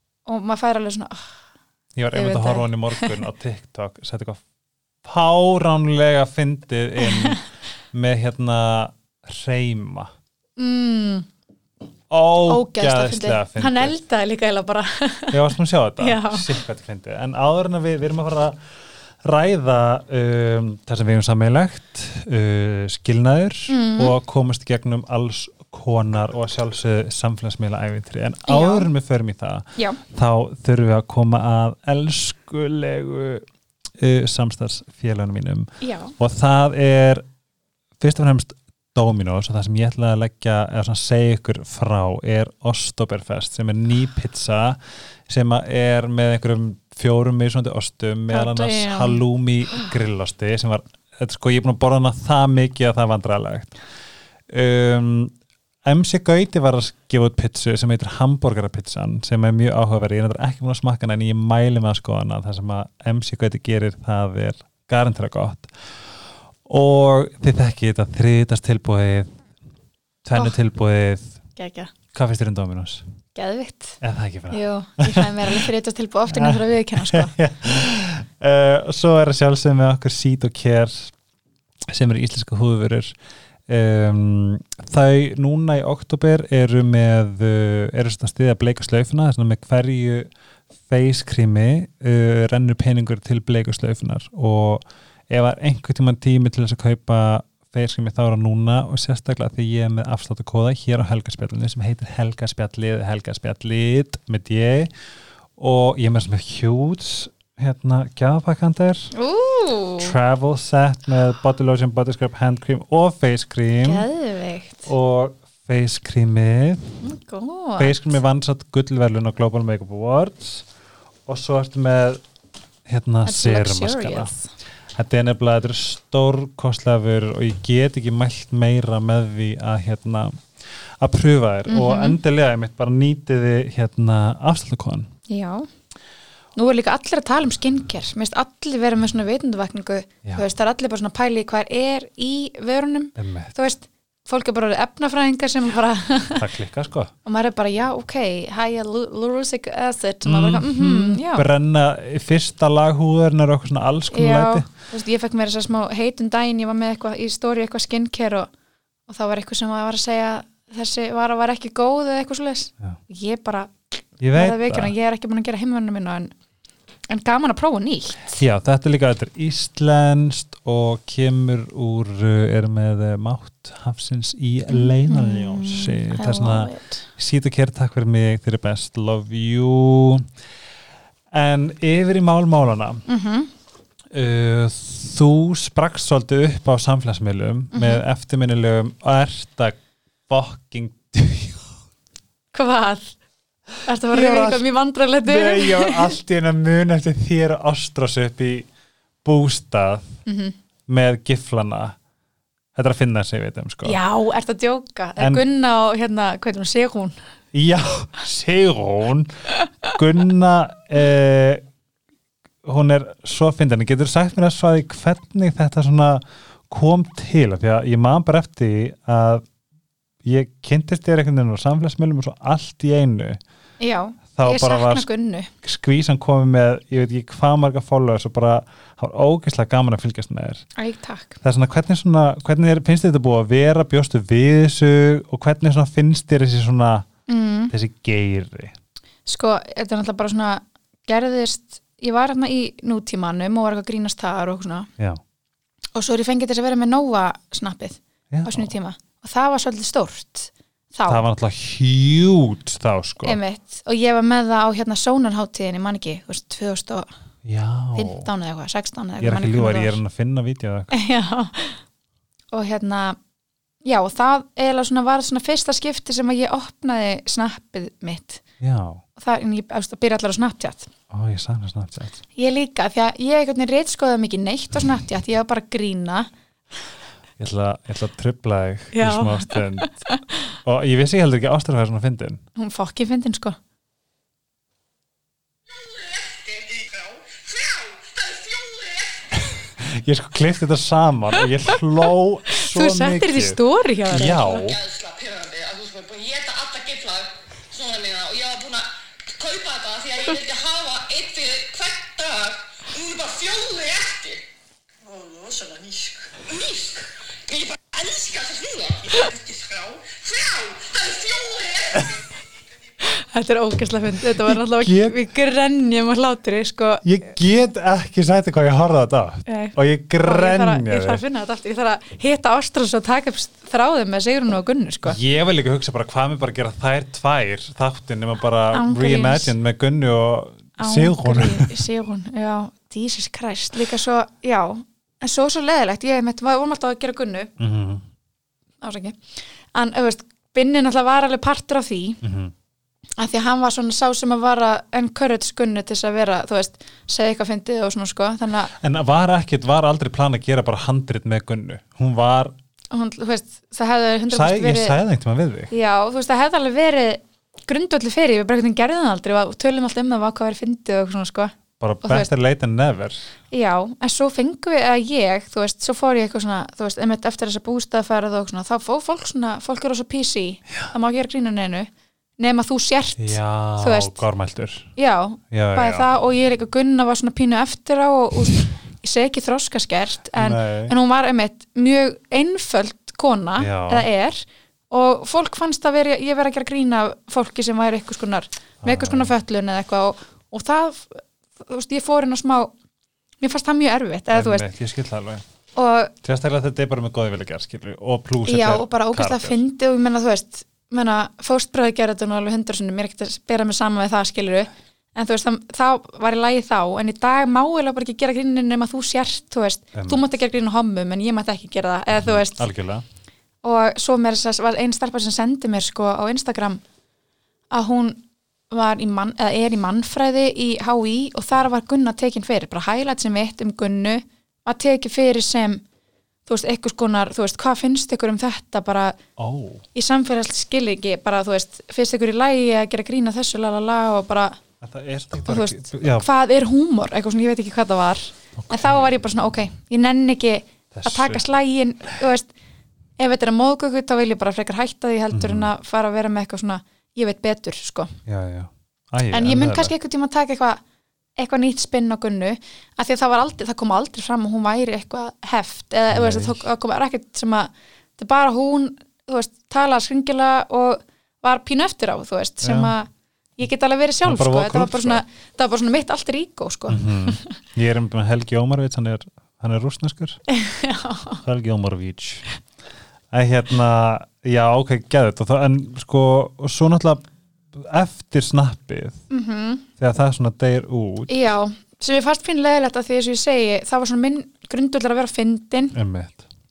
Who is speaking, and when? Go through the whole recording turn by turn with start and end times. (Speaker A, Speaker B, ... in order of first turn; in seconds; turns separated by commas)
Speaker A: 0.2-1.3, Speaker B: 1.9-4.4, Speaker A: 2.1-3.1, Speaker B: 5.0-10.1, Speaker A: 7.0-7.4, Speaker A: 10.6-11.3, Speaker B: 12.1-13.9, Speaker A: 12.4-15.4, Speaker B: 15.3-18.6, Speaker A: 16.0-16.5, Speaker B: 19.2-33.5, Speaker A: 23.7-24.1, Speaker A: 28.5-28.9, Speaker B: 34.0-37.2, Speaker A: 35.8-36.1, Speaker B: 38.0-53.7, Speaker A: 48.3-49.2, Speaker B: 54.5-55.3, Speaker B: 55.8-65.7, Speaker B: 66.7-69.4, Speaker B: 70.2-71.4, Speaker A: 71.5-71.9, Speaker B: 72.1-73.0, Speaker A: 73.3-74.0, Speaker B: 74.0-75.7, Speaker A: 74.5-77.3, Speaker B: 76.3-81.1, Speaker B: 81.9-83.1, Speaker B: 83.7-90.3, Speaker B: 90.9-104.9, Speaker B: 105.6-109.1, Speaker A: 109.1-110.1, Speaker B: 110.0-114.1, Speaker A: 113.8-114.9, Speaker B: 114.8-117.0, Speaker A: 117.0-118.0, Speaker B: 117.8-120.7, Speaker B: 121.3-122.2, Speaker B: 122.8-124.3, Speaker A: 123.2-124.5, Speaker B: 124.9-135.1, Speaker A: 131.7-132.2, Speaker A: 135.3-135.7, Speaker A: 136.6-146.5, Speaker B: 143.2-143.5, Speaker B: 146.4-147.1, Speaker A: 147.2-151.4, Speaker B: 150.2-154.7, Speaker A: 154.1-158.5, Speaker A: 159.1-163.7, Speaker B: 164.2-164.9, Speaker A: 164.3-166.3, Speaker A: 167.1-168.4, Speaker B: 168.3-180.3, Speaker A: 174.7-177.1, Speaker B: 181.3-183.0, Speaker A: 183.1-183.5, Speaker B: 184.1-191.7, Speaker A: 187.7-188.0, Speaker A: 192.5-193.2, Speaker A: 193.8-196.2, Speaker B: 194.1-194.6, Speaker B: 195.2-198.7, Speaker B: 199.2-200.1, Speaker A: 200.2-200.5, Speaker B: 200.9-201.9, Speaker B: 202.7-204.0, Speaker A: 203.8-207.1, Speaker B: 205.2-205.4, Speaker B: 207.5-209.3, Speaker B: 209.8-211.6, Speaker B: 212.6-219.4, Speaker B: 220.2-223.4, Speaker A: 223.8-225.5, Speaker B: 224.3-225.1, Speaker B: 225.6-230.7, Speaker A: 230.8-231.4, Speaker B: 231.4-237.1, Speaker A: 237.3-237.7, Speaker B: 237.7-238.7, Speaker A: 239.2-244.9, Speaker A: 245.9-251.2, Speaker B: 248.3-248.7, Speaker B: 251.1-253.4, Speaker A: 253.2-257.1, Speaker B: 257.4-258.3, Speaker A: 257.9-260.0, Speaker B: 259.2-260.9, Speaker A: 260.9-261.8, Speaker A: 262.5-263.2, Speaker A: 263.8-268.4, Speaker B: 268.6-269.0, Speaker A: 269.2-270.9, Speaker B: 271.1-272.2, Speaker A: 272.4-276.3, Speaker B: 277.4-280.0, Speaker A: 278.9-280.2, Speaker B: 280.6-282.4, Speaker A: 282.6-283.6, Speaker C: 285.7-289.6, Speaker B: 289.8-294.8, Speaker A: 292.5-294.7, Speaker C: 294.6-304.4, Speaker C: 305.0-312.4, Speaker A: 313.0-317.0, Speaker B: 314.4-315.2, Speaker B: 317.0-321.2, Speaker A: 319.4-325.2, Speaker B: 325.0-331.8, Speaker A: 328.7-329.5, Speaker A: 330.8-337.5, Speaker B: 337.6-338.0, Speaker A: 338.8-339.2, Speaker A: 339.7-342.2, Speaker B: 342.2-342.5, Speaker A: 343.2-348.7, Speaker B: 348.7-352.5, Speaker A: 352.9-355.0, Speaker B: 354.3-355.7, Speaker A: 355.7-362.3, Speaker B: 361.8-363.2, Speaker A: 363.5-374.2, Speaker B: 373.2-374.9, Speaker A: 374.9-392.7, Speaker B: 375.5-376.1, Speaker B: 380.3-380.9, Speaker B: 383.6-384.1, Speaker B: 388.8-389.3, Speaker A: 393.4-394.6, Speaker B: 394.3-395.4, Speaker A: 395.8-396.1, Speaker B: 396.2-399.6, Speaker A: 398.4-412.6, Speaker B: 409.9-410.2, Speaker B: 412.1-413.0, Speaker A: 413.6-416.8, Speaker A: 417.7-425.8, Speaker A: 426.4-429.2, Speaker B: 429.4-429.9, Speaker A: 429.9-434.6, Speaker B: 434.8-436.3, Speaker A: 435.5-442.5, Speaker B: 438.6-439.2, Speaker B: 440.9-441.4, Speaker A: 443.2-448.1, Speaker B: 445.3-445.7, Speaker B: 448.2-449.9, Speaker A: 449.3-450.8, Speaker A: 451.4-467.5, Speaker B: 456.1-456.6, Speaker B: 462.6-462.9, Speaker B: 464.2-465.2, Speaker B: 466.9-470.4, Speaker A: 470.5-471.4, Speaker B: 471.4-472.4, Speaker B: 473.3-479.2, Speaker A: 479.3-479.9, Speaker B: 480.0-481.4, Speaker A: 481.3-485.9, Speaker B: 485.9-486.4